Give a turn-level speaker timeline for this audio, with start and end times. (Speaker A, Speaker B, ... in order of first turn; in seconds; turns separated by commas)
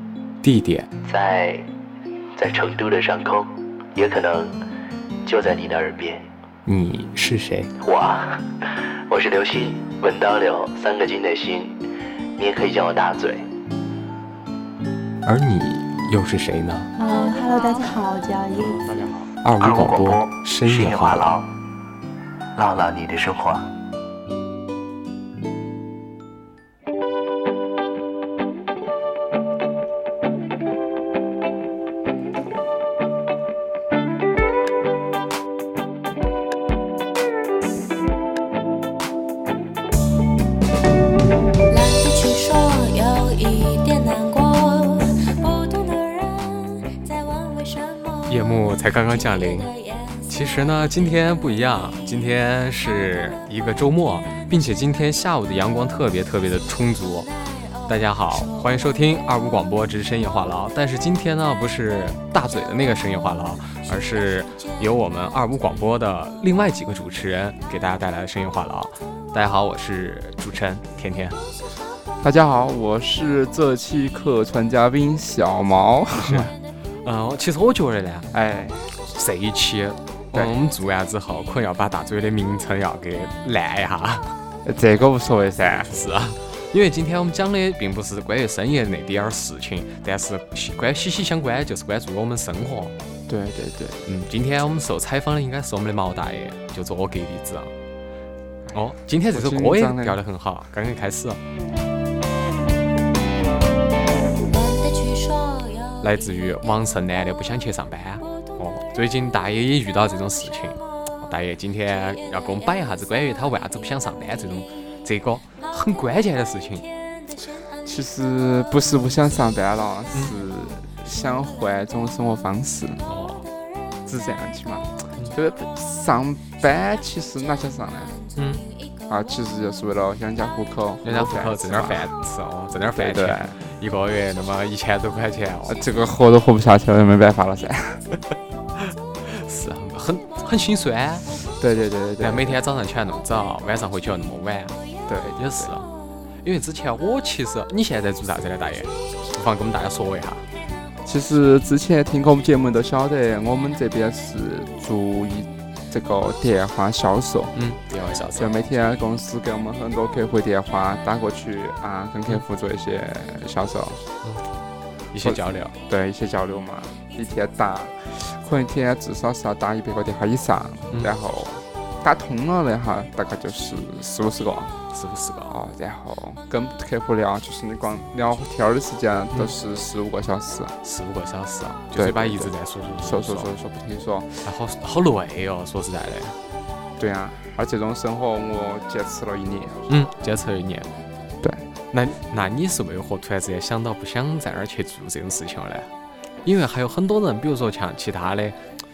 Speaker A: 0.4-0.9, Speaker B: 1.0-1.7, Speaker B: 2.3-4.6, Speaker B: 5.2-6.3, Speaker A: 6.7-7.7, Speaker B: 7.8-13.5, Speaker A: 15.2-16.9, Speaker C: 17.0-19.0, Speaker B: 18.8-21.5, Speaker A: 19.4-21.3, Speaker B: 22.6-23.7, Speaker D: 41.7-48.3, Speaker A: 48.3-49.7, Speaker D: 49.6-50.2, Speaker A: 50.3-57.3, Speaker A: 57.9-71.4, Speaker E: 72.2-76.5, Speaker A: 76.2-78.3, Speaker E: 78.3-78.9, Speaker A: 79.1-84.3, Speaker E: 84.6-85.9, Speaker A: 85.7-92.9, Speaker E: 93.3-94.0, Speaker A: 94.0-97.7, Speaker E: 98.7-100.2, Speaker A: 98.7-101.4, Speaker D: 104.4-106.0, Speaker A: 106.0-116.9, Speaker E: 117.8-123.0, Speaker A: 123.0-123.5, Speaker E: 124.0-128.2, Speaker A: 128.4-128.6, Speaker E: 129.1-132.1, Speaker A: 131.0-135.9, Speaker E: 133.0-133.6, Speaker E: 135.7-138.1, Speaker A: 139.2-141.3, Speaker E: 141.6-142.6, Speaker A: 142.2-144.8, Speaker E: 145.1-145.7, Speaker A: 145.4-145.9, Speaker A: 146.4-150.4, Speaker E: 151.0-157.5, Speaker A: 157.6-158.5, Speaker E: 158.4-164.0, Speaker A: 165.1-165.7, Speaker E: 165.2-174.8, Speaker A: 174.9-175.6, Speaker E: 175.5-180.8, Speaker A: 180.8-183.5, Speaker E: 181.9-184.4, Speaker A: 184.4-186.4, Speaker E: 187.0-189.9, Speaker A: 189.9-190.9, Speaker A: 191.9-195.9, Speaker A: 196.4-198.6